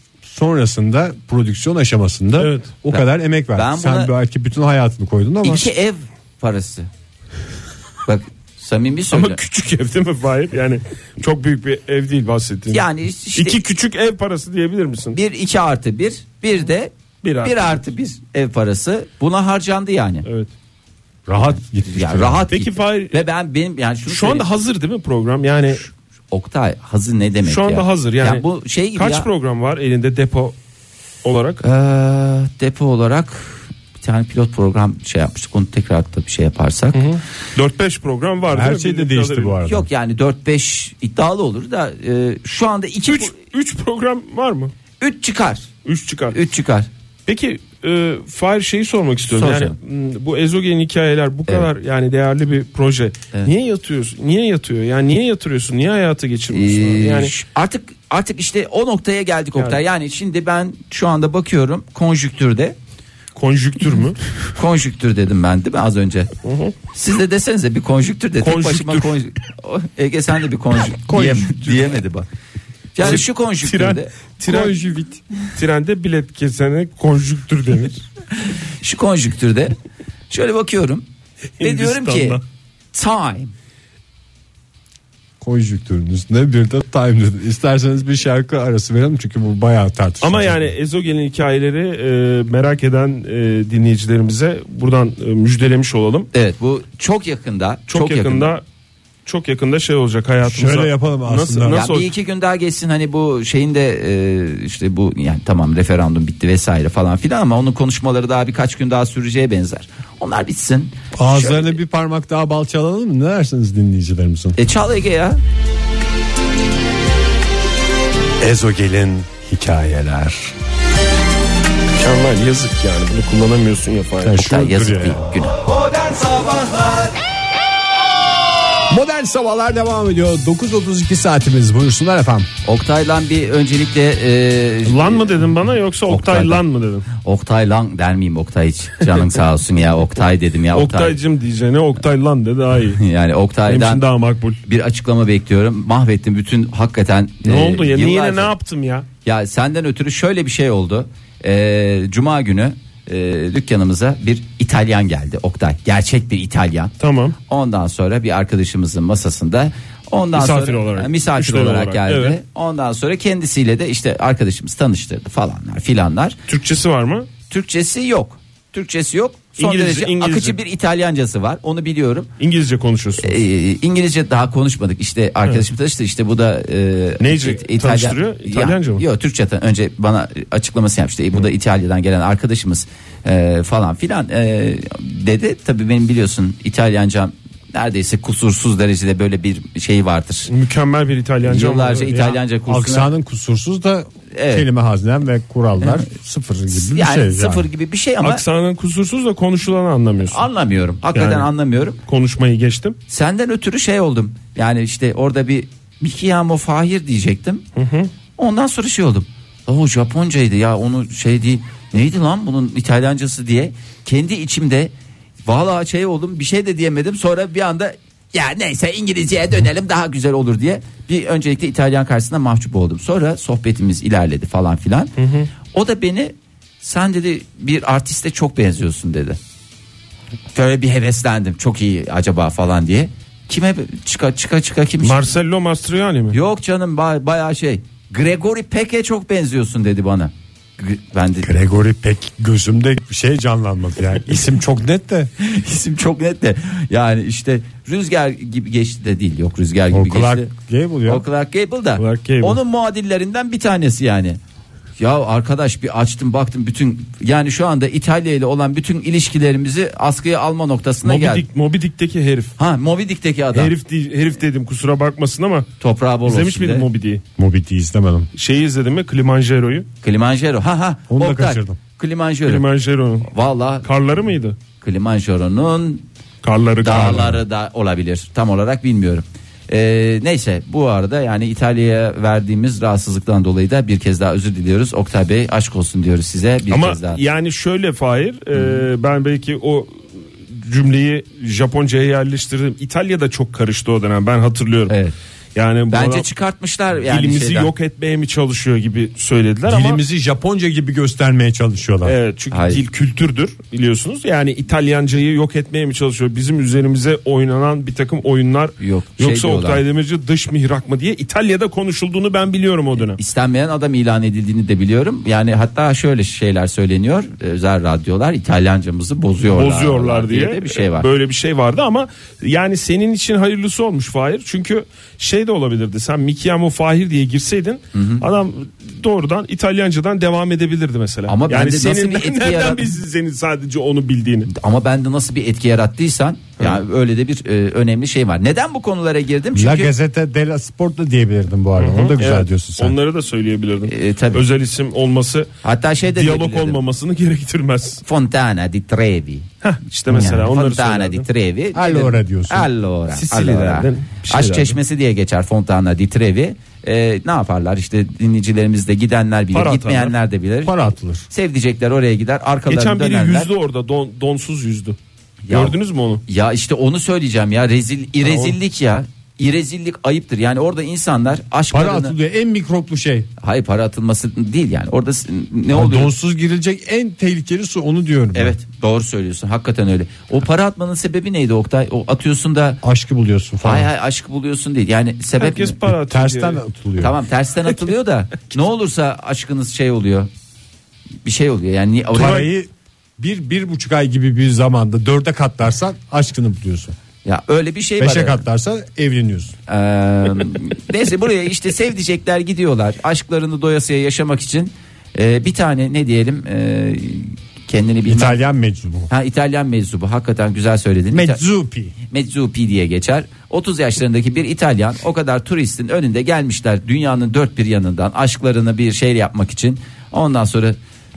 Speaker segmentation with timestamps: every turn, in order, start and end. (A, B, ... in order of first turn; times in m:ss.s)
0:00.2-0:05.7 A
0:02.4-0:02.7 B
0:02.9-0:04.1 C
0:05.4-0:06.9 C
0:08.0-0:09.4 C
0:09.1-0:12.8 B
0:12.7-0:13.6 C
0:13.3-0:15.2 B
0:15.1-0:20.2 C
0:17.2-0:17.8 B
0:20.2-0:20.5 B
0:21.3-0:22.5 A
0:21.4-0:24.5 C
0:22.5-0:23.2 B
0:24.1-0:25.8 B
0:26.3-0:29.3 C
0:27.4-0:30.5 B
0:31.2-0:31.6 B
0:31.6-0:37.0 C
0:36.9-0:39.6 B
0:38.5-0:39.8 A
0:39.6-0:43.3 C
0:43.1-0:44.7 B
0:45.0-0:45.7 C
0:45.8-0:46.4 B
0:46.3-0:46.9 C
0:47.3-0:57.3 B
0:49.3-0:49.8 C
0:56.5-1:02.8 C
0:59.6-0:59.8 B
1:03.4-1:04.2 B
1:04.6-1:06.3 C
1:06.4-1:06.7 B
1:06.9-1:12.2 C
1:08.4-1:09.2 B
1:11.0-1:12.0 A
1:12.9-1:14.1 C
1:13.0-1:14.8 B
1:14.4-1:15.2 A
1:15.6-1:18.0 B
1:18.4-1:19.7 C
1:20.3-1:21.0 C
1:21.6-1:22.4 B
1:21.6-1:22.4 C
1:22.9-1:23.5 C
1:25.4-1:30.7 A
1:30.2-1:36.3 B
1:36.3-1:38.6 C
1:37.9-1:38.6 B
1:39.2-1:42.1 B
1:40.4-1:41.8 A
1:41.7-1:51.8 C
1:51.1-1:54.6 A
1:54.6-1:55.4 C
1:58.4-2:00.5 A
2:02.0-2:04.4 B
2:04.2-2:05.2 A
2:04.4-2:05.6 C
2:08.9-2:12.5 A
2:12.6-2:15.4 C
2:14.8-2:17.1 B
2:16.1-2:16.6 C
2:17.2-2:21.2 C
2:20.7-2:23.0 B
2:23.0-2:24.0 C
2:23.7-2:24.6 B
2:24.6-2:28.5 C
2:27.4-2:29.0 B
2:29.2-2:36.9 C
2:37.0-2:37.4 B
2:37.5-2:46.4 C
2:40.3-2:42.4 B
2:46.5-2:47.3 B
2:47.5-2:52.3 C
2:49.6-2:50.6 B
2:52.4-2:53.4 B
2:53.2-3:10.5 C
2:57.2-2:59.0 B
3:10.5-3:12.2 B
3:11.4-3:13.1 C
3:12.1-3:17.7 A
3:14.3-3:14.7 C
3:15.8-3:16.1 C
3:16.7-3:18.4 C
3:18.2-3:20.4 B
3:20.2-3:22.0 C
3:21.1-3:21.5 B
3:22.1-3:22.9 B
3:23.1-3:27.6 C
3:27.8-3:28.1 B
3:28.4-3:34.9 C
3:35.4-3:45.1 C
3:45.2-3:45.5 B
3:45.7-3:49.4 C
3:50.5-3:55.3 C
3:55.0-3:56.4 B
3:56.3-4:01.5 C
4:01.4-4:05.3 A
4:05.4-4:10.5 C
4:09.9-4:11.2 A
4:11.1-4:14.4 C
4:12.0-4:12.6 B
4:15.0-4:21.4 C
4:21.0-4:22.5 B
4:22.6-4:23.7 C
4:23.5-4:25.7 B
4:25.8-4:26.9 C
4:26.2-4:27.2 B
4:27.4-4:28.3 A
4:28.3-4:29.9 B
4:30.0-4:32.6 C
4:31.1-4:31.8 A
4:32.4-4:33.3 B
4:33.2-4:33.9 C
4:33.8-4:34.6 B
4:34.8-4:36.0 C
4:36.4-4:37.4 B
4:36.8-4:47.2 C
4:46.7-4:54.9 B
4:48.5-4:48.9 C
4:54.9-4:55.1 C
4:55.5-4:56.3 B
4:55.9-4:57.7 C
4:57.0-5:00.0 B
4:59.7-5:02.1 A
5:02.0-5:13.2 B
5:02.5-5:02.8 C
5:08.8-5:09.8 C
5:13.1-5:21.1 C
5:19.5-5:34.5 B
5:27.9-5:28.2 C
5:31.3-5:32.9 C
5:34.5-5:39.9 C
5:39.5-5:43.0 A
5:41.8-5:45.5 B
5:43.9-5:44.4 C
5:45.6-5:46.8 C
5:46.1-5:48.0 B
5:48.0-5:49.5 C
5:49.6-5:51.2 B
5:50.1-5:50.4 A
5:50.1-6:00.8 C
5:51.7-5:52.7 A
5:53.1-5:54.8 B
5:59.5-6:00.1 B
6:00.6-6:01.3 A
6:01.3-6:03.5 C
6:02.7-6:05.0 B
6:05.5-6:12.1 C
6:05.5-6:06.2 B
6:08.2-6:08.6 B
6:11.7-6:13.3 A
6:13.4-6:16.1 C
6:15.7-6:18.6 A
6:18.3-6:22.8 C
6:22.8-6:23.9 A
6:23.6-6:25.8 C
6:25.4-6:26.6 B
6:25.8-6:27.2 A
6:27.0-6:30.3 C
6:31.2-6:32.5 C
6:32.1-6:36.9 A
6:32.2-6:32.5 B
6:37.2-6:38.4 C
6:38.0-6:39.5 A
6:39.7-6:48.4 C
6:48.0-6:49.1 A
6:49.1-6:51.4 C
6:51.1-6:51.9 A
6:52.1-7:00.8 C